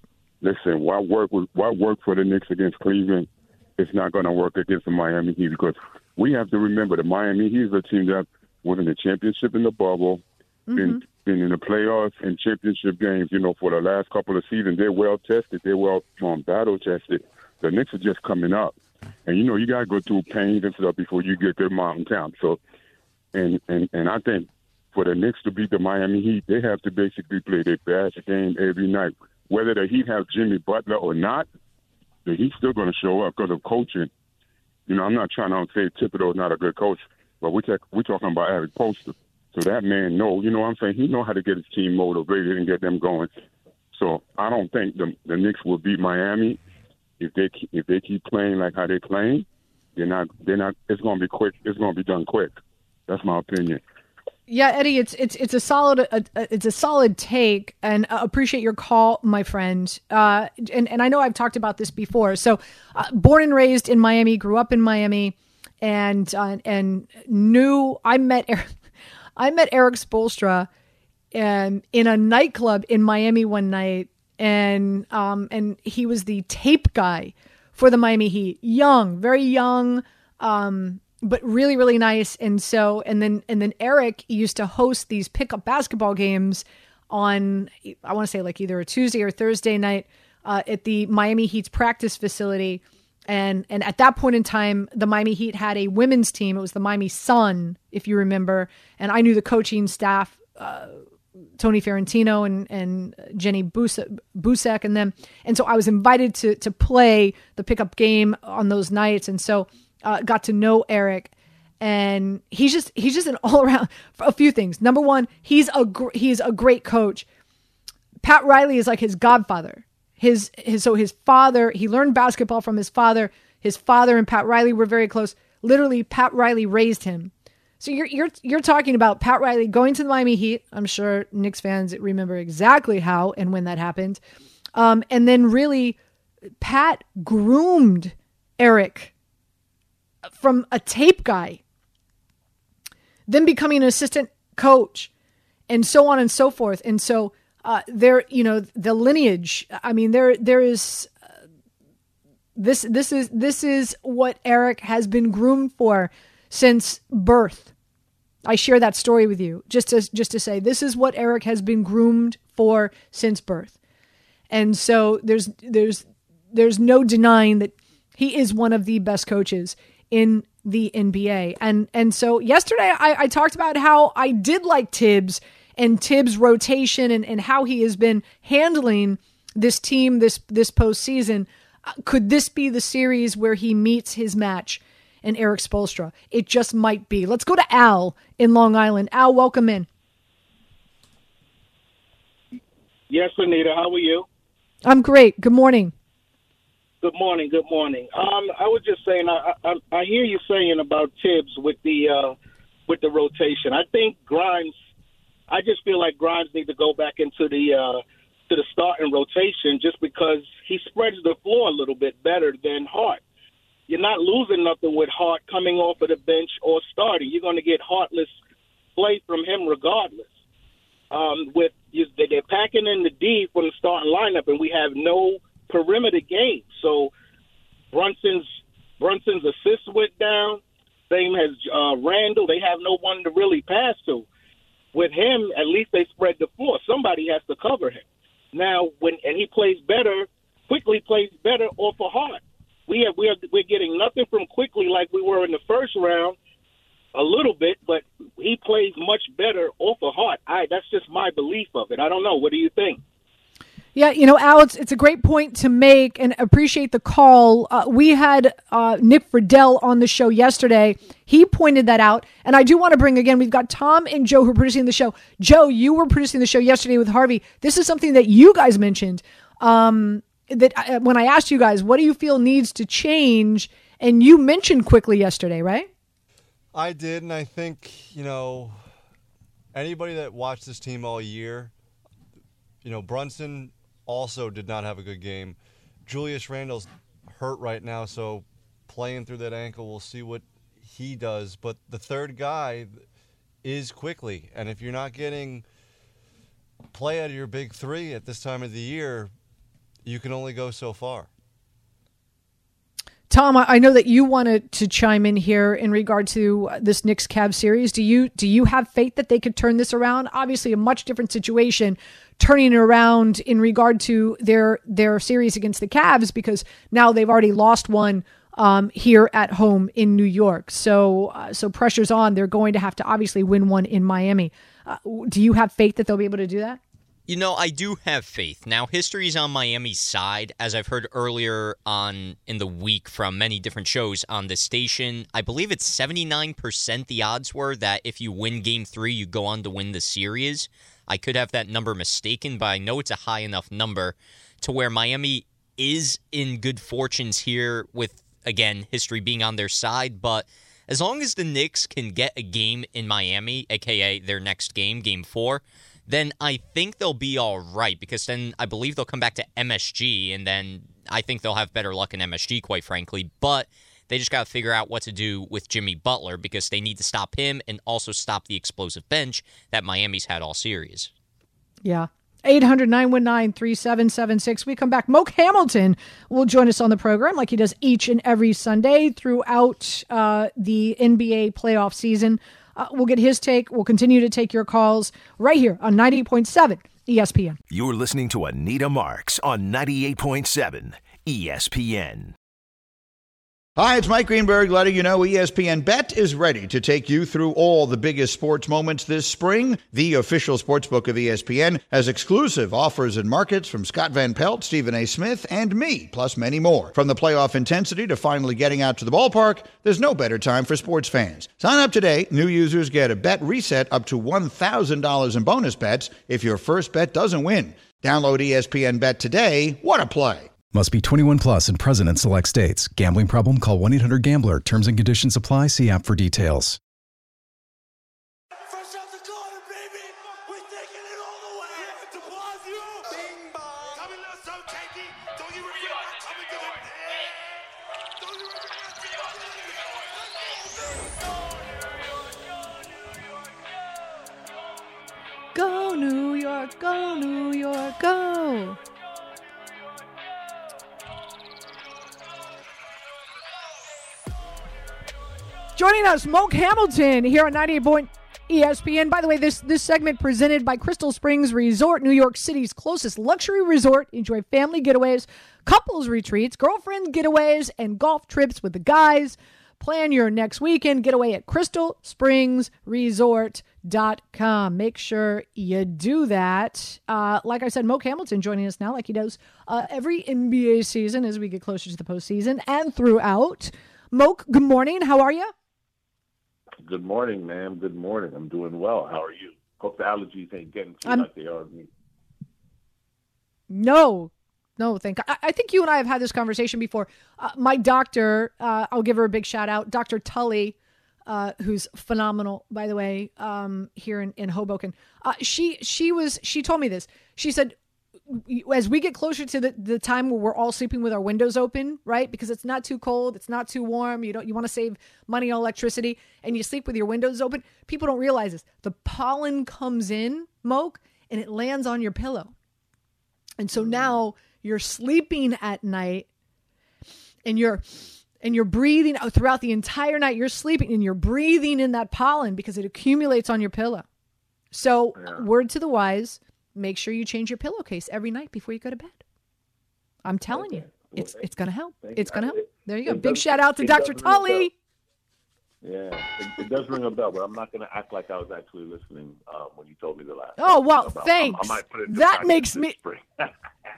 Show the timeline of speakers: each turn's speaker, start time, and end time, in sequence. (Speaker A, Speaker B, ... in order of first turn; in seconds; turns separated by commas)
Speaker A: 0.4-22.6, Speaker B: 10.7-11.0, Speaker A: 23.3-31.4, Speaker A: 32.2-34.1, Speaker A: 34.9-43.3, Speaker A: 43.9-46.6, Speaker A: 47.2-53.8, Speaker B: 54.5-68.7, Speaker B: 69.4-70.7, Speaker B: 71.3-101.0, Speaker B: 101.6-117.2, Speaker B: 118.2-134.2, Speaker B: 134.7-136.0, Speaker B: 136.6-139.1, Speaker B: 140.2-141.6, Speaker B: 143.3-145.1, Speaker B: 145.7-151.1, Speaker B: 152.6-157.7, Speaker B: 158.4-163.7, Speaker B: 164.5-189.9, Speaker C: 193.1-194.2, Speaker B: 194.8-195.9, Speaker C: 197.0-202.3, Speaker C: 202.9-204.7, Speaker C: 205.5-213.2, Speaker C: 213.9-218.4, Speaker C: 218.9-220.3, Speaker C: 221.1-227.1, Speaker C: 227.9-228.5, Speaker C: 229.0-234.2, Speaker C: 234.9-246.3, Speaker C: 247.1-253.0, Speaker B: 253.9-275.9, Speaker D: 276.7-278.8, Speaker D: 279.7-281.7, Speaker D: 282.8-293.0, Speaker D: 293.6-295.6, Speaker D: 296.9-299.3, Speaker D: 300.0-301.3, Speaker B: 303.3-326.8, Speaker E: 327.3-371.1, Speaker B: 371.8-387.6, Speaker F: 387.7-392.3, Speaker G: 393.8-420.5, Speaker H: 420.7-426.8, Speaker B: 445.5-448.8, Speaker B: 455.8-485.5, Speaker I: 486.8-491.9, Speaker B: 493.7-507.7, Speaker B: 508.3-522.5, Speaker B: 523.6-526.3, Speaker I: 523.8-524.2, Speaker B: 527.4-534.0, Speaker B: 534.7-539.2, Speaker I: 535.1-535.5, Speaker B: 540.2-544.7, Speaker I: 540.5-544.7, Speaker I: 545.8-553.5, Speaker B: 550.6-552.9